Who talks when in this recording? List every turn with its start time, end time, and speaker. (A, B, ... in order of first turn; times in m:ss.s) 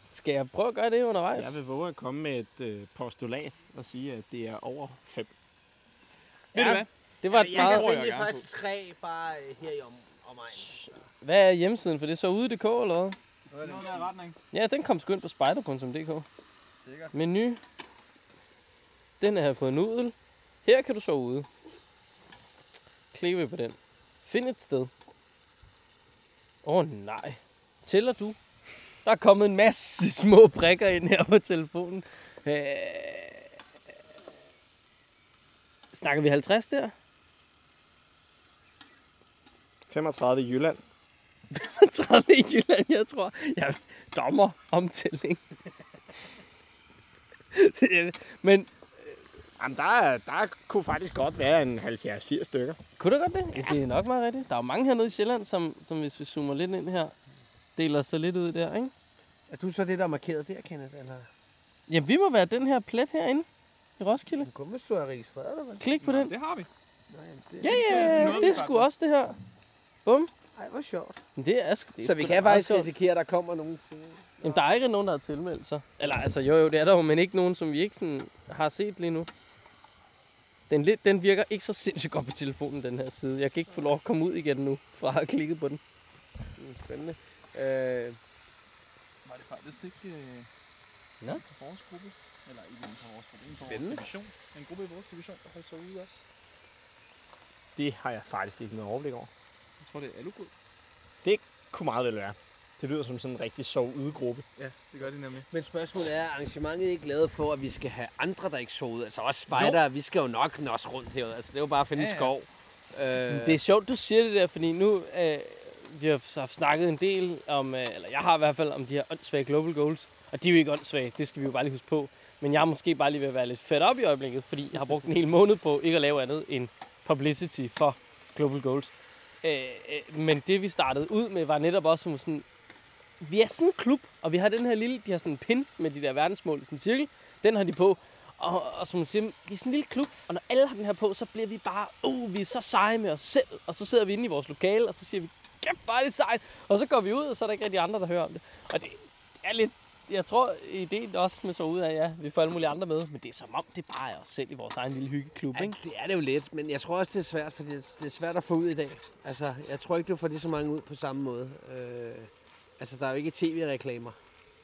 0:00.1-0:01.6 A
0:01.4-0:05.3 B
0:06.5-0:08.5 C
0:06.5-0:11.0 D
0:07.2-0:07.9 A
0:10.6-0:13.2 A
0:13.5-0:14.4 C
0:13.5-0:14.1 D
0:14.5-0:16.3 A
0:16.8-0:17.1 C
0:17.1-0:17.6 A
0:19.2-0:21.5 A
0:23.1-0:24.9 A
0:26.6-0:28.4 A
0:29.0-0:33.5 A
0:35.9-0:36.9 A
0:39.9-0:40.8 B
0:41.5-0:45.4 A
0:47.5-0:49.2 A
0:49.6-0:52.8 B
0:53.0-0:57.1 A
0:57.8-0:58.9 A
0:59.5-1:01.3 D
1:01.9-1:03.5 A
1:04.0-1:04.5 A
1:04.4-1:05.8 D
1:05.8-1:06.4 A
1:06.0-1:06.7 C
1:07.1-1:08.5 D
1:07.6-1:09.4 A
1:07.7-1:08.9 C
1:10.0-1:10.3 A
1:10.6-1:11.2 D
1:11.4-1:12.9 A
1:12.0-1:14.6 D
1:14.4-1:19.3 A
1:20.7-1:25.8 A
1:26.6-1:28.2 D
1:29.2-1:30.5 C
1:31.4-1:36.2 C
1:33.6-1:34.0 D
1:37.8-1:39.3 B
1:39.8-1:40.5 C
1:41.2-1:44.5 B
1:44.7-1:45.5 C
1:45.5-1:53.6 D
1:49.5-1:49.8 C
1:51.9-1:52.3 C
1:53.3-2:08.9 A
2:09.4-2:12.4 A
2:13.2-2:35.8 A
2:35.5-2:44.2 D